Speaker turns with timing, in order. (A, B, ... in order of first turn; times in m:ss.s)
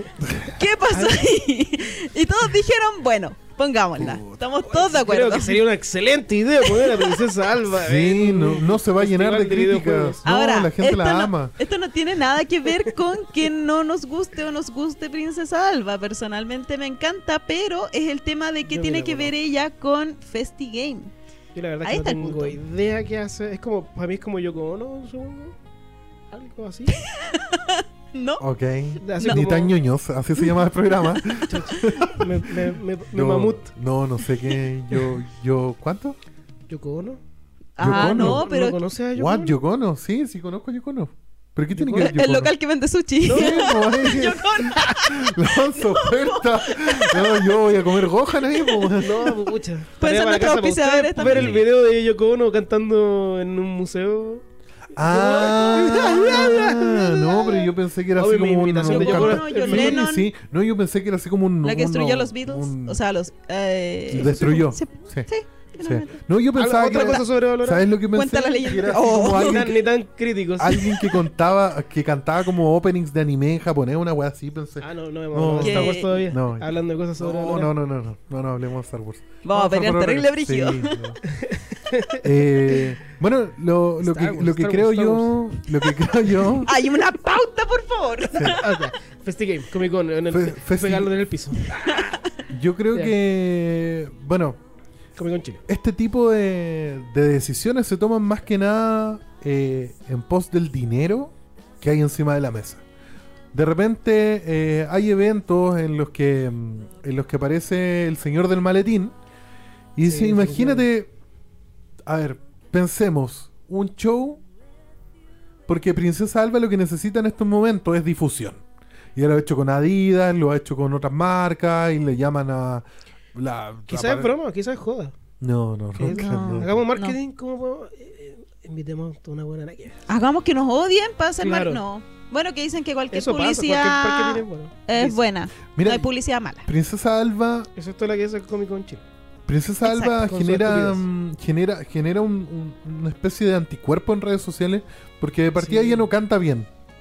0:00.4-0:05.6 A
0:00.9-0:01.2 B
0:04.0-0:04.4 C
0:04.6-0:10.2 B
0:07.8-0:11.5 C
0:10.2-0:21.1 A
0:18.7-0:19.3 B
0:21.5-0:25.6 B
0:21.8-0:22.6 A
0:26.3-0:27.0 B
0:27.0-0:28.4 A
0:28.4-0:32.3 C
0:29.0-0:29.7 B
0:31.4-0:33.7 B
0:33.1-0:36.2 C
0:36.7-0:37.2 B
0:37.8-0:38.8 A
0:37.8-0:38.4 C
0:37.8-0:39.6 B
0:39.1-0:42.5 C
0:41.7-0:42.2 B
0:42.0-0:47.7 A
0:43.2-0:43.9 B
0:43.3-0:49.3 C
0:48.3-0:49.0 A
0:49.0-0:54.4 B
0:50.0-0:51.6 A
0:51.2-0:51.6 C
0:54.9-1:03.0 C
0:55.0-1:00.0 B
0:55.1-0:56.5 A
0:58.8-1:00.3 A
1:01.6-1:06.2 A
1:04.1-1:05.3 C
1:04.2-1:04.6 B
1:05.8-1:09.8 C
1:06.5-1:07.9 B
1:06.9-1:07.2 A
1:08.1-1:09.7 A
1:09.3-1:11.0 B
1:10.6-1:16.7 C
1:14.8-1:17.7 B
1:15.6-1:16.3 A
1:17.2-1:21.2 C
1:19.4-1:21.0 A
1:21.3-1:22.9 B
1:22.2-1:26.7 C
1:24.0-1:25.5 B
1:26.6-1:28.6 A
1:28.4-1:32.2 B
1:30.3-1:31.1 C
1:31.8-1:32.2 A
1:32.5-1:34.6 C
1:35.2-1:35.6 B
1:35.7-1:42.8 C
1:43.5-1:49.1 C
1:50.0-1:51.1 C
1:50.0-1:50.9 B
1:52.0-1:54.4 C
1:55.7-1:58.6 C
1:59.1-2:04.3 C
2:03.9-2:05.1 B
2:05.4-2:06.8 C
2:06.0-2:10.0 B
2:06.0-2:07.2 A
2:10.1-2:16.7 A
2:11.4-2:11.8 B
2:13.1-2:15.2 B
2:15.8-2:16.1 C
2:16.6-2:17.7 C
2:17.8-2:19.0 B
2:19.5-2:26.7 C
2:19.8-2:20.2 A
2:20.1-2:21.0 B
2:25.6-2:26.1 B